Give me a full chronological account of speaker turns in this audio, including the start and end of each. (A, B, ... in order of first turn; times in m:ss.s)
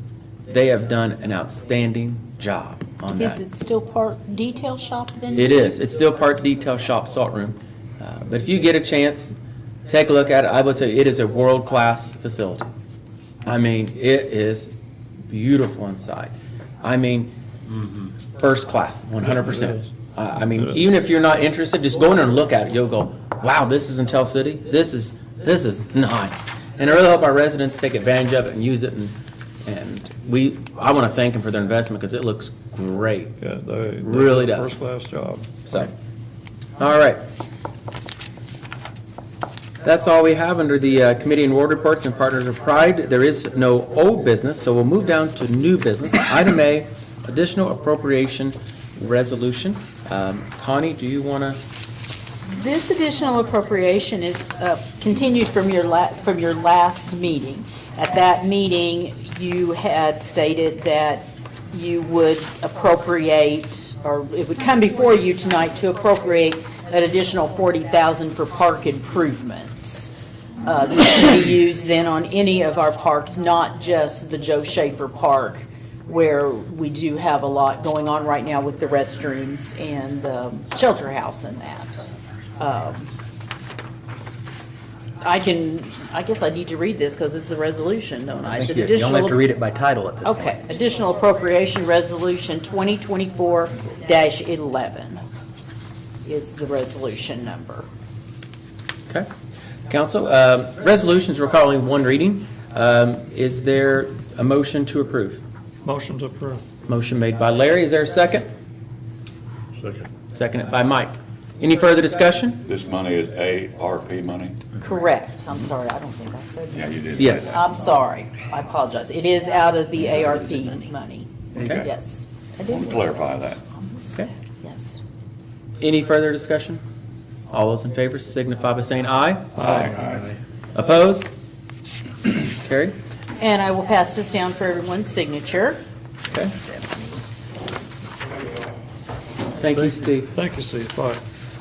0:00.5-0:03.4 A
0:03.2-0:05.8 B
0:05.3-0:09.4 A
0:09.9-0:12.7 A
0:13.4-0:14.7 A
0:15.3-0:17.3 A
0:17.9-0:33.4 A
0:33.4-0:35.5 C
0:34.0-0:34.8 A
0:35.7-0:35.9 A
0:36.8-0:37.2 A
0:39.8-0:51.6 A
0:52.5-1:10.1 B
1:10.6-1:22.0 B
1:22.6-1:23.1 B
1:25.2-1:29.4 B
1:28.4-1:30.6 D
1:30.2-1:35.2 B
1:36.2-1:37.9 B
1:39.9-1:45.4 A
1:45.8-1:46.6 C
1:46.9-1:48.5 A
1:50.3-1:52.6 A
1:52.7-1:54.6 E
1:54.8-2:03.5 B
1:56.7-1:57.6 E
1:57.2-1:57.6 A
2:01.6-2:01.9 A
2:02.7-2:03.6 E
2:04.0-2:04.3 A
2:04.6-2:05.0 B
2:05.8-2:06.8 A
2:07.5-2:10.1 A
2:09.6-2:09.9 C
2:10.7-2:11.3 A
2:12.4-2:12.9 A
2:13.4-2:15.8 B
2:19.6-2:20.3 A
2:20.3-2:21.2 C